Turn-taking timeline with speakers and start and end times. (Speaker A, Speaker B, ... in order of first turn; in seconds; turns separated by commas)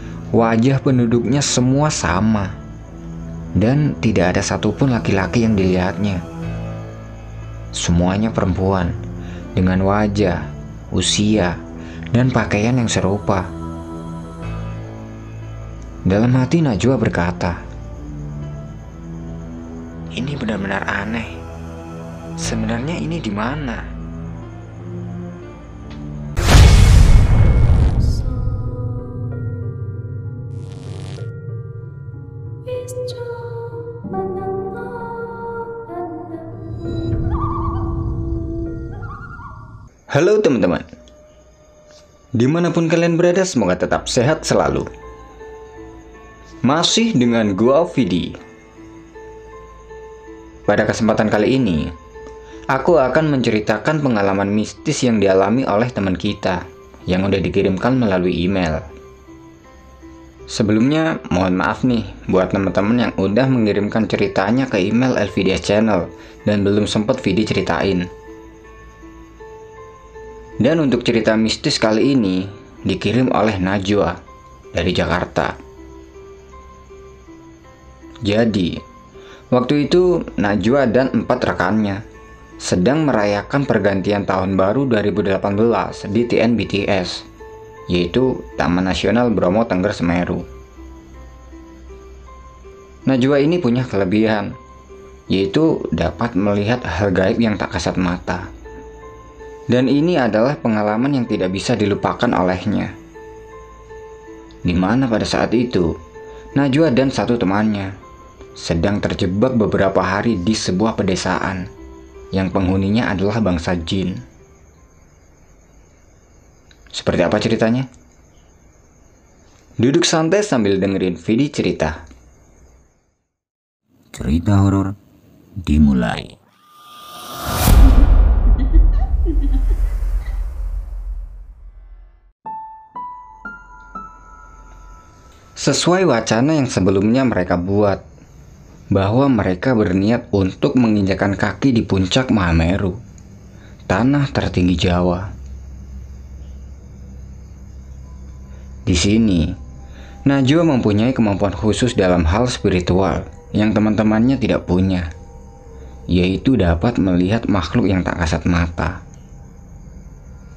Speaker A: 0.3-2.5, Speaker A: 3.6-6.2, Speaker A: 7.7-8.9, Speaker A: 9.5-11.6, Speaker A: 12.1-13.5, Speaker A: 16.1-17.6, Speaker A: 20.1-21.4, Speaker A: 22.4-23.9, Speaker A: 40.1-40.9, Speaker A: 42.4-44.9, Speaker A: 46.6-48.4, Speaker A: 50.7-51.9, Speaker A: 52.7-58.9, Speaker A: 60.5-68.1, Speaker A: 70.6-74.2, Speaker A: 74.7-75.5, Speaker A: 78.2-78.8, Speaker A: 79.5-82.0, Speaker A: 82.6-87.2, Speaker A: 87.9-90.4, Speaker A: 93.1-94.5, Speaker A: 95.3-98.5, Speaker A: 99.7-102.9, Speaker A: 104.6-105.9, Speaker A: 106.5-107.9, Speaker A: 108.6-111.7, Speaker A: 112.3-114.2, Speaker A: 116.9-117.9, Speaker A: 119.8-122.0, Speaker A: 124.1-125.0, Speaker A: 125.6-126.3, Speaker A: 135.6-138.0, Speaker A: 138.9-143.0, Speaker A: 143.9-145.3, Speaker A: 148.8-149.5, Speaker A: 150.2-155.1, Speaker A: 156.1-159.0